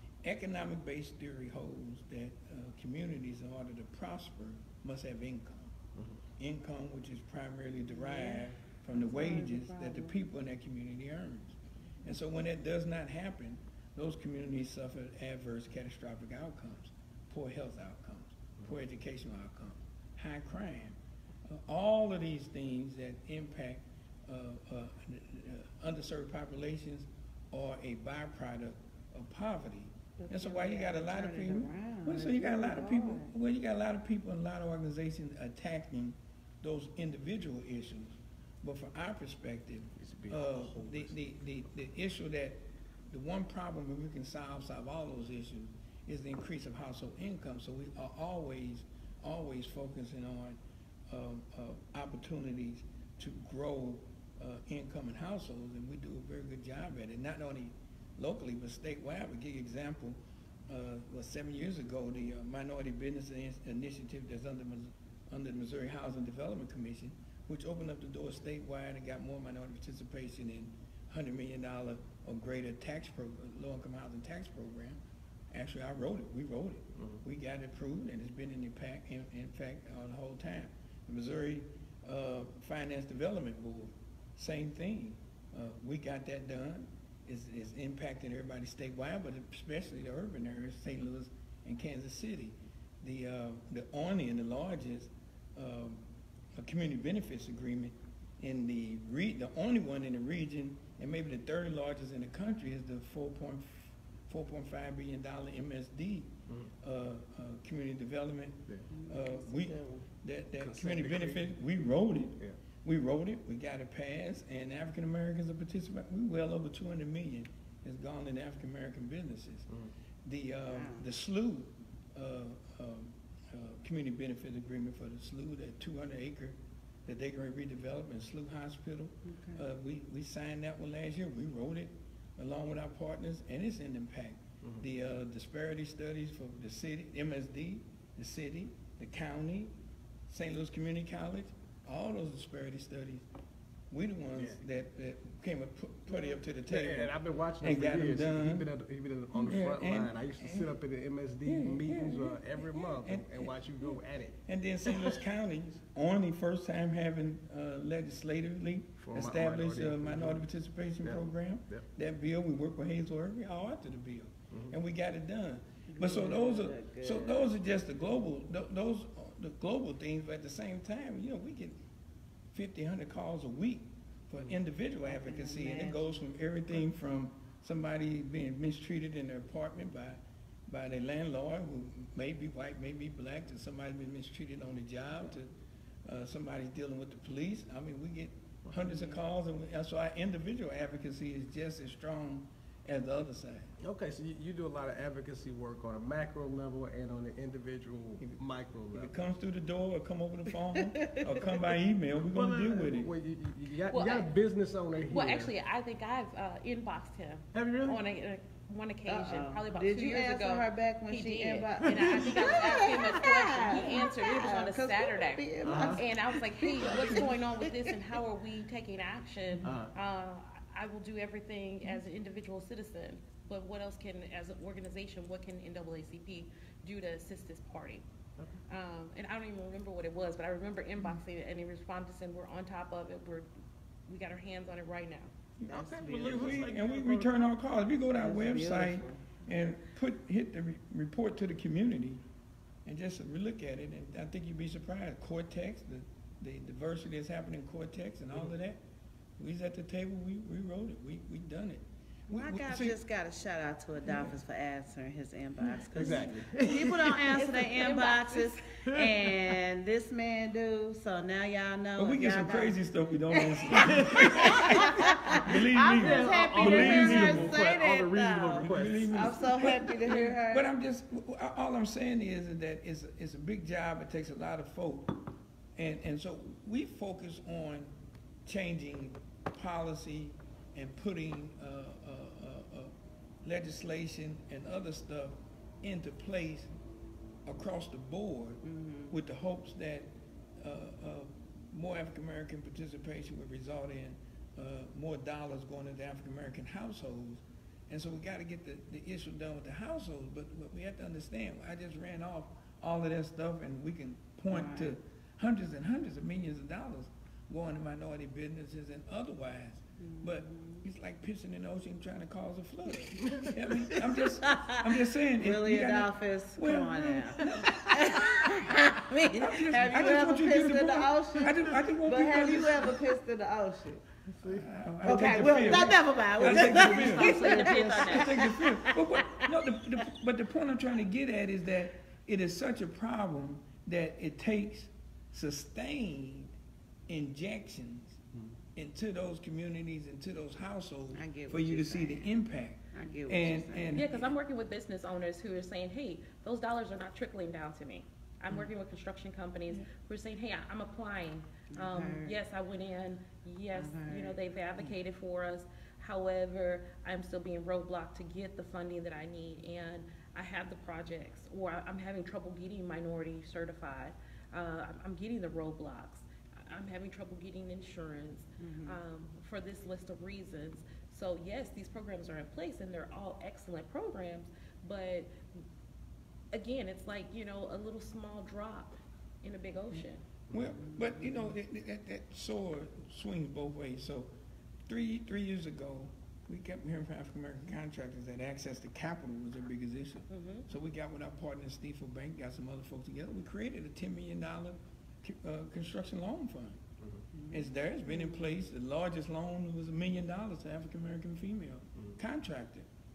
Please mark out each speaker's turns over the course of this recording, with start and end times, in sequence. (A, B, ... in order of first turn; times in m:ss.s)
0:00.2-0:05.7 A
0:06.4-1:15.0 A
0:07.9-0:10.2 B
0:30.2-0:33.3 B
0:40.0-0:41.2 C
1:15.5-1:36.0 A
1:17.0-1:17.2 C
1:36.5-1:59.6 A
1:48.9-1:50.0 B
1:50.6-1:51.5 C
2:00.2-2:19.7 A
2:00.7-2:01.0 B
2:09.2-2:09.6 B
2:20.3-2:23.2 A
2:23.9-2:28.7 A
2:24.3-2:24.6 C
2:26.6-2:35.2 C
2:29.3-2:30.7 A
2:31.4-2:33.9 A
2:34.4-2:51.8 A
2:39.0-2:40.4 C
2:41.0-2:41.8 C
2:44.5-2:44.8 C
2:45.9-2:47.5 B
2:52.5-3:05.5 A
2:55.1-2:56.0 B
3:06.0-3:13.7 A
3:08.6-3:09.1 C
3:13.8-3:19.2 C
3:18.9-3:23.1 A
3:21.0-3:21.3 B
3:22.2-3:25.5 C
3:23.9-3:24.3 D
3:25.1-3:48.0 D
3:27.5-3:28.0 C
3:29.1-3:37.9 B
3:31.8-3:32.9 C
3:35.6-3:36.0 C
3:39.6-3:39.9 C
3:48.7-3:53.5 D
3:54.1-3:55.3 D
3:55.6-4:02.2 A
3:55.7-3:56.6 B
3:55.7-3:57.5 C
3:58.2-3:59.4 B
4:02.8-4:08.8 A
4:09.4-4:13.0 A
4:12.3-4:30.7 B
4:15.9-4:17.4 C
4:17.3-4:18.6 D
4:18.8-4:19.3 C
4:22.0-4:27.6 A
4:23.7-4:29.4 C
4:28.7-4:37.9 A
4:38.4-4:46.7 A
4:47.4-5:18.2 A
4:48.6-4:49.1 B
5:04.5-5:04.9 B
5:10.0-5:10.8 B
5:13.2-5:13.5 C
5:14.4-5:24.0 B
5:17.0-5:18.2 C
5:19.3-5:23.0 A
5:24.3-5:28.4 C
5:24.4-5:36.5 A
5:25.0-5:29.5 B
5:27.1-5:28.3 D
5:37.1-5:38.2 A
5:38.8-5:44.3 A
5:41.1-5:42.3 B
5:42.9-5:44.0 B
5:43.9-6:15.5 D
5:51.7-5:52.4 B
5:53.7-5:54.8 B
6:08.6-6:09.0 B
6:16.5-6:20.2 D
6:20.5-6:20.8 C
6:20.5-6:24.3 A
6:20.8-6:21.5 B
6:24.9-6:36.8 A
6:30.3-6:30.7 D
6:37.3-6:38.5 B
6:37.5-6:42.9 A